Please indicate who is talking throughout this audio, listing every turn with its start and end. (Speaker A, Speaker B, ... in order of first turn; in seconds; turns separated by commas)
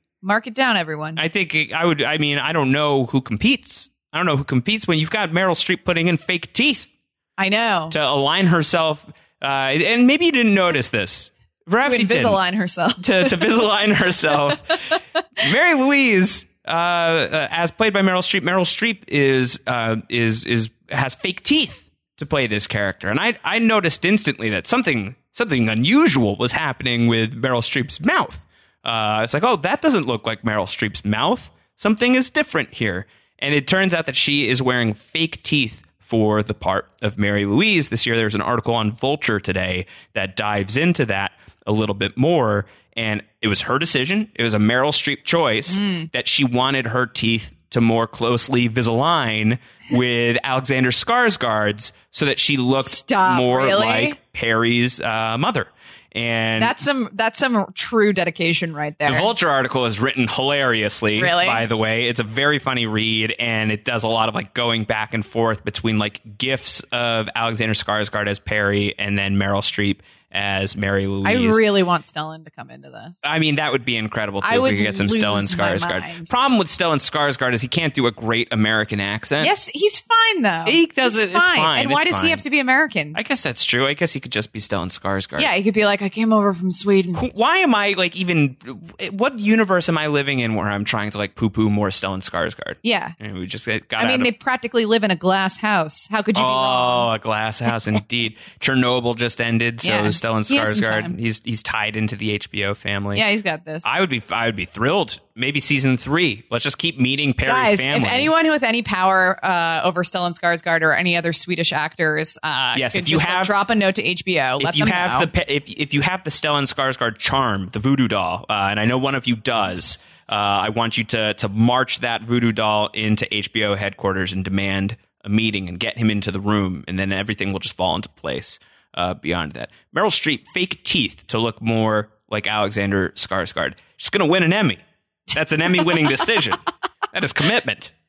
Speaker A: 0.2-1.2, Speaker B: 1.2-6.9, Speaker A: 7.4-8.0, Speaker B: 7.9-12.4, Speaker A: 11.8-13.5, Speaker B: 13.0-14.8, Speaker B: 15.4-56.8, Speaker A: 45.7-46.1, Speaker A: 52.8-54.2, Speaker A: 56.6-59.3, Speaker B: 59.1-71.6, Speaker A: 61.2-61.6, Speaker A: 71.2-73.2, Speaker B: 73.2-79.5, Speaker A: 74.4-76.3, Speaker A: 79.4-83.2, Speaker B: 80.7-82.4, Speaker B: 83.2-85.5, Speaker A: 85.4-87.2, Speaker B: 87.2-94.3, Speaker A: 92.8-93.2, Speaker A: 94.0-97.1, Speaker B: 96.3-103.2, Speaker A: 99.8-101.2, Speaker A: 103.2-103.9, Speaker B: 103.8-108.3, Speaker A: 107.5-115.3, Speaker B: 112.7-113.5, Speaker B: 114.6-137.9